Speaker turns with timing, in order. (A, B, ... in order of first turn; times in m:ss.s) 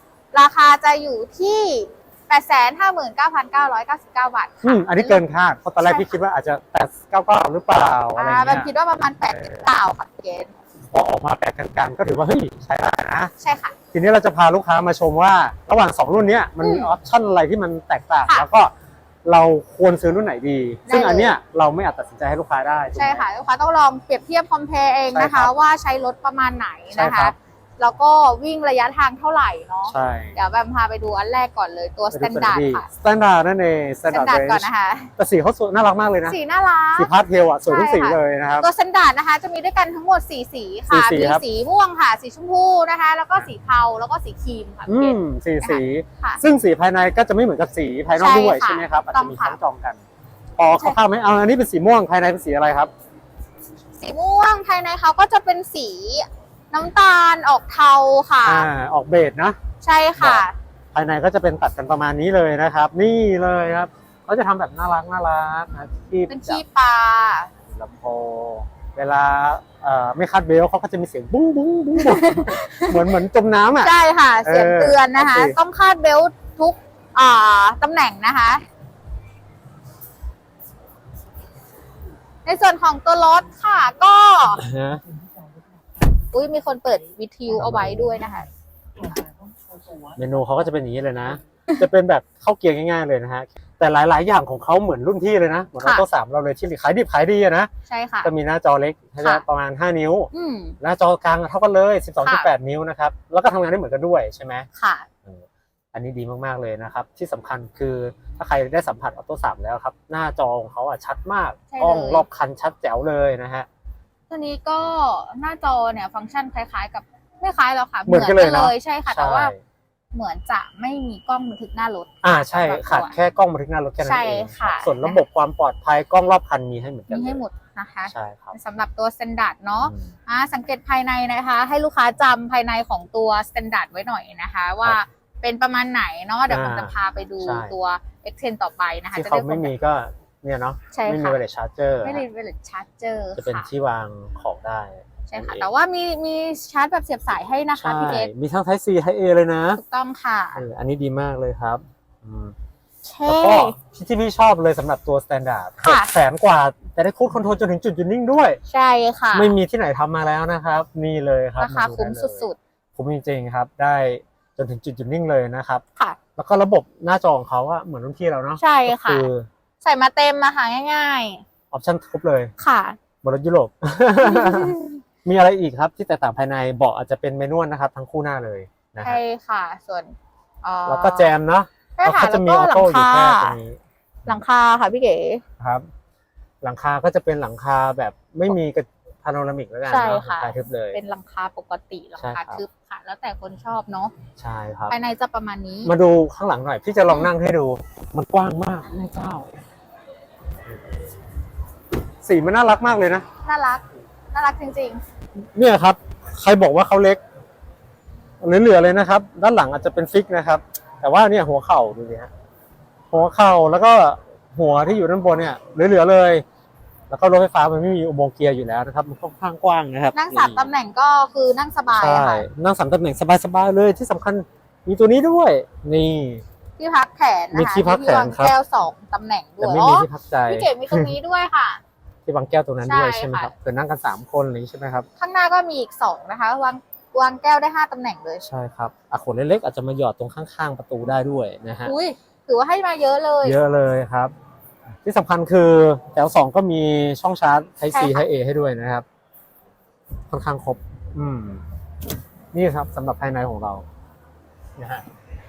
0:00.3-0:05.2 A
0:04.6-0:08.7 B
0:05.8-0:06.1 A
0:08.2-0:10.5 A
0:10.9-0:13.3 B
0:13.4-0:13.8 A
0:13.9-0:18.7 B
0:16.6-0:16.9 A
0:19.2-0:23.2 B
0:20.8-0:21.4 A
0:23.0-0:32.9 A
0:25.1-0:25.5 B
0:26.9-0:27.3 B
0:29.8-0:30.4 B
0:32.1-0:36.4 B
0:34.1-0:35.1 A
0:36.3-0:37.1 A
0:37.0-0:38.7 B
0:37.6-0:46.4 A
0:40.9-0:41.4 B
0:44.9-0:50.0 B
0:48.1-0:49.6 A
0:50.6-0:52.9 B
0:54.0-0:58.7 A
0:58.4-0:59.6 B
0:59.8-1:00.5 A
1:00.2-1:06.6 B
1:06.3-1:07.5 A
1:07.6-1:15.6 B
1:12.0-1:13.0 A
1:13.8-1:18.6 A
1:22.4-1:24.6 A
1:24.6-1:25.0 B
1:26.3-1:28.5 A
1:27.5-1:28.2 B
1:30.2-1:37.7 B
1:37.9-1:38.3 A
1:38.2-1:44.7 B
1:40.3-1:40.8 A
1:42.2-1:42.5 A
1:44.8-1:45.1 A
1:45.2-1:53.7 B
1:51.7-1:52.2 A
1:54.3-1:59.5 A
1:58.1-1:59.6 B
2:00.1-2:03.2 A
2:02.2-2:07.4 B
2:04.0-2:05.2 A
2:07.1-2:19.7 A
2:08.1-2:08.6 B
2:09.8-2:10.1 B
2:16.5-2:17.7 B
2:19.1-2:22.2 B
2:20.9-2:21.4 A
2:22.0-2:23.7 A
2:23.4-2:25.7 B
2:25.3-2:28.3 A
2:27.7-2:29.8 B
2:29.8-2:30.6 A
2:30.5-2:32.5 B
2:33.0-2:33.8 A
2:33.2-2:38.6 B
2:35.8-2:36.1 A
2:38.7-2:39.5 A
2:39.3-2:45.8 B
2:41.6-2:42.6 A
2:46.4-2:49.5 B
2:48.6-2:49.3 A
2:49.8-2:51.4 A
2:51.7-2:52.5 B
2:52.6-2:53.0 A
2:53.2-2:59.2 B
2:54.2-2:55.0 A
2:59.0-3:01.3 A
3:00.9-3:03.8 B
3:02.0-3:03.6 A
3:04.2-3:05.4 A
3:05.6-3:05.9 B
3:06.6-3:11.0 B
3:09.8-3:14.1 A
3:12.2-3:12.6 B
3:14.4-3:15.0 B
3:14.9-3:15.9 A
3:15.8-3:19.5 B
3:22.2-3:23.2 B
3:23.4-3:25.0 A
3:25.6-3:27.2 B
3:28.4-3:32.3 B
3:33.1-3:36.4 B
3:37.1-3:40.7 B
3:40.1-3:42.4 A
3:41.9-3:46.4 B
3:46.8-3:51.8 A
3:47.5-3:48.6 B
3:49.6-3:51.1 B
3:52.2-3:55.1 B
3:52.8-3:53.5 A
3:55.2-3:58.4 A
3:58.4-4:01.9 B
4:01.8-4:03.6 A
4:03.4-4:04.3 B
4:05.0-4:09.0 B
4:07.9-4:08.2 A
4:10.3-4:11.6 B
4:12.5-4:13.8 B
4:14.8-4:15.0 B